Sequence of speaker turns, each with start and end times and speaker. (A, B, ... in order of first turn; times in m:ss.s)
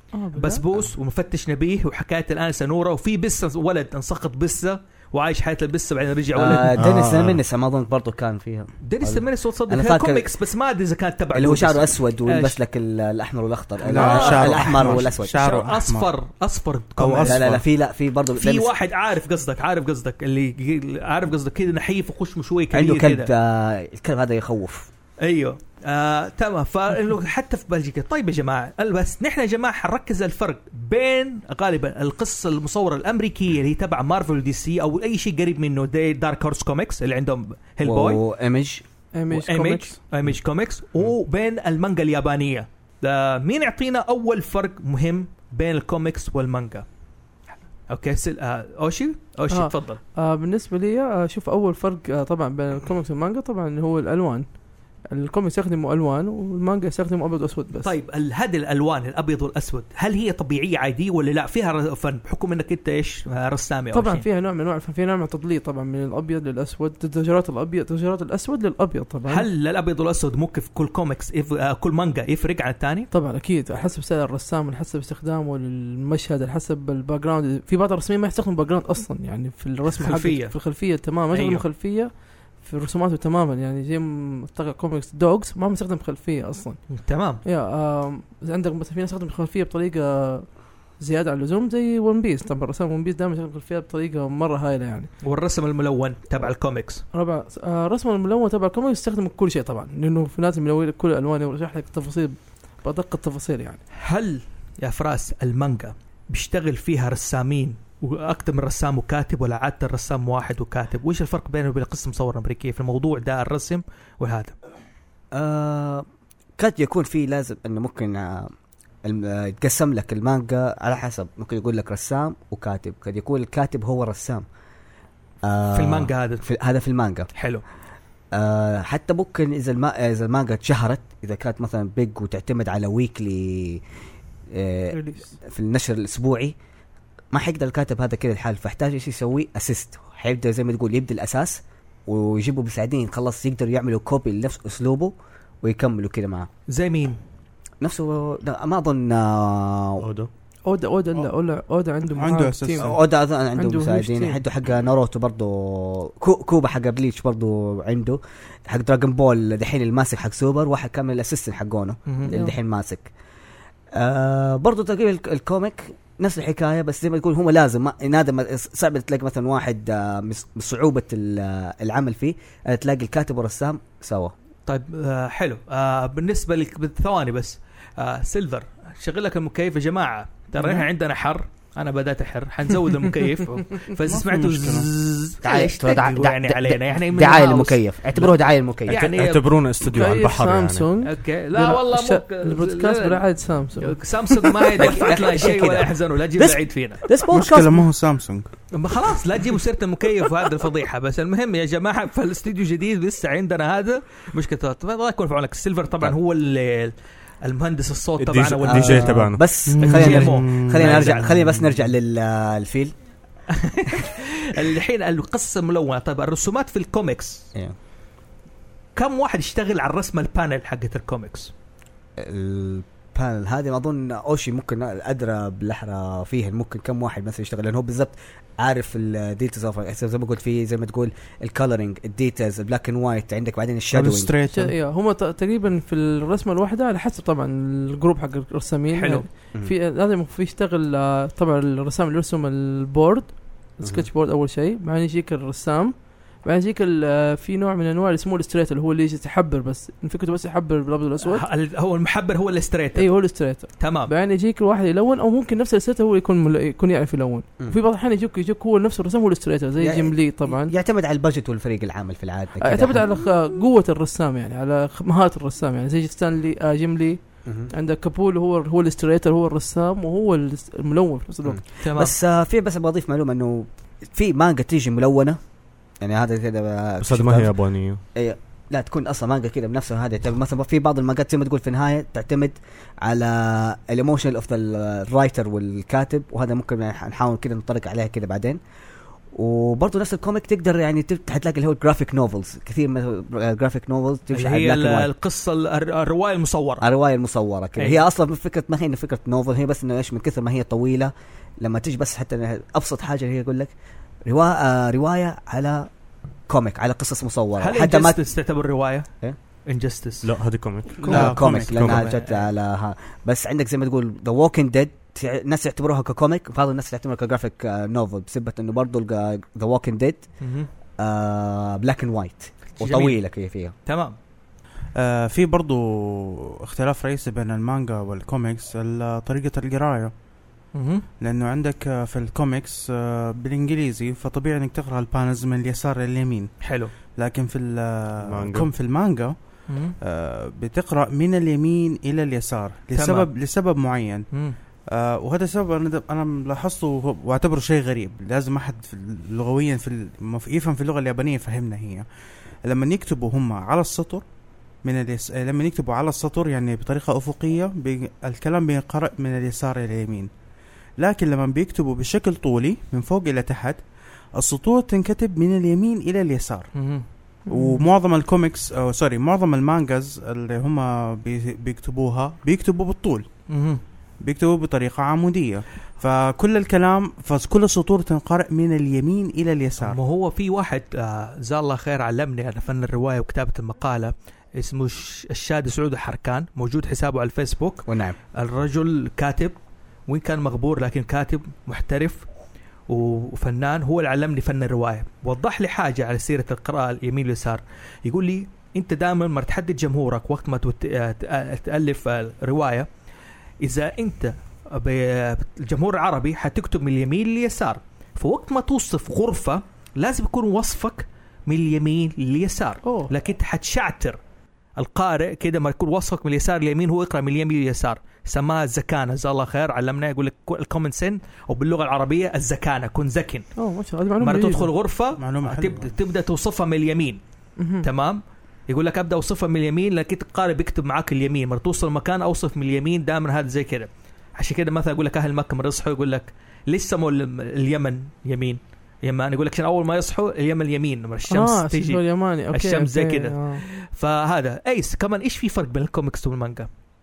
0:00.1-0:00.6 A
0:00.3-0:06.8 B
0:06.4-0:10.3 C
0:06.7-0:07.4 D
0:08.8-0:12.6 B
0:11.3-0:15.3 C
0:13.8-0:16.1 E
0:13.9-0:17.4 B
0:17.0-0:17.6 E
0:17.2-0:18.7 C
0:18.3-0:23.3 B
0:22.7-0:24.9 C
0:25.2-0:38.2 B
0:37.8-0:38.8 C
0:39.2-0:40.0 A
0:39.3-0:46.8 B
0:47.9-0:50.0 B
0:49.5-0:54.5 A
0:55.1-0:57.9 A
0:57.8-1:04.3 B
1:03.9-1:09.5 A
1:09.3-1:13.1 B
1:13.1-1:26.8 A
1:20.0-1:20.6 B
1:21.3-1:21.6 B
1:26.9-1:27.4 B
1:27.4-1:35.1 A
1:35.2-1:37.0 B
1:37.1-1:43.8 A
1:44.0-1:54.6 B
1:55.3-1:56.0 C
1:56.6-1:58.5 C
1:59.0-2:04.4 C
2:05.4-2:07.3 C
2:05.7-2:06.4 B
2:07.4-2:07.6 B
2:08.3-2:13.8 C
2:14.5-2:16.6 C
2:14.9-2:15.3 A
2:17.3-2:26.5 C
2:26.7-2:27.2 B
2:27.8-2:30.0 C
2:30.0-2:30.3 D
2:30.7-2:32.9 A
2:32.2-2:33.0 E
2:32.8-2:43.1 C
2:33.6-2:34.4 A
2:42.1-2:42.4 B
2:42.3-2:42.6 A
2:43.9-2:54.3 C
2:54.7-3:08.3 B
3:04.0-3:04.9 E
3:05.4-3:09.1 C
3:08.9-3:09.5 B
3:08.9-3:10.9 D
3:09.8-3:14.7 A
3:11.0-3:13.2 B
3:13.8-3:17.0 B
3:14.8-3:17.8 C
3:17.3-3:18.5 E
3:18.7-3:29.1 B
3:28.2-3:29.4 D
3:28.6-3:32.9 C
3:29.7-3:31.1 E
3:29.8-3:31.4 B
3:33.5-3:37.5 B
3:39.0-3:41.5 B
3:42.2-3:54.3 C
3:53.9-3:54.8 E
3:54.5-4:11.4 A
3:58.9-3:59.3 B
4:03.8-4:04.1 C
4:11.2-4:13.1 B
4:13.0-4:20.7 A
4:13.8-4:14.1 B
4:19.8-4:23.1 C
4:22.6-4:31.6 A
4:27.5-4:27.7 C
4:31.4-4:35.4 C
4:31.8-4:32.2 B
4:36.0-4:37.6 C
4:37.0-4:38.0 D
4:38.2-4:48.6 C
4:49.3-4:55.1 C
4:54.3-4:56.8 B
4:56.8-5:03.7 C
5:04.2-5:05.9 C
5:06.5-5:08.2 C
5:07.6-5:09.1 B
5:09.7-5:10.3 B
5:10.2-5:12.0 D
5:11.0-5:20.3 C
5:11.1-5:12.0 E
5:11.8-5:12.4 B
5:20.4-5:20.7 B
5:21.0-5:23.7 C
5:22.8-5:23.2 B
5:23.9-5:24.2 B
5:25.0-5:30.1 E
5:30.7-5:31.0 B
5:31.2-5:36.5 E
5:36.6-5:36.9 B
5:37.2-5:39.4 E
5:38.2-5:38.7 D
5:39.7-5:40.0 B
5:40.0-5:44.3 E
5:42.9-5:43.3 B
5:44.9-5:52.0 E
5:52.6-5:54.2 E
5:54.8-6:00.3 E
6:01.0-6:03.8 E
6:04.4-6:06.7 E
6:06.8-6:07.0 B
6:07.5-6:07.9 A
6:07.5-6:13.3 E
6:13.5-6:13.8 B
6:14.2-6:20.0 E
6:19.8-6:29.6 B
6:27.9-6:28.2 C
6:30.1-6:32.3 B
6:32.9-6:42.9 B
6:43.6-6:54.2 B
6:52.8-6:53.1 A
6:54.8-7:03.5 B
7:03.6-7:04.7 A
7:04.2-7:07.2 B
7:05.2-7:05.9 E
7:07.6-7:07.9 A
7:07.8-7:26.7 B
7:21.3-7:23.6 A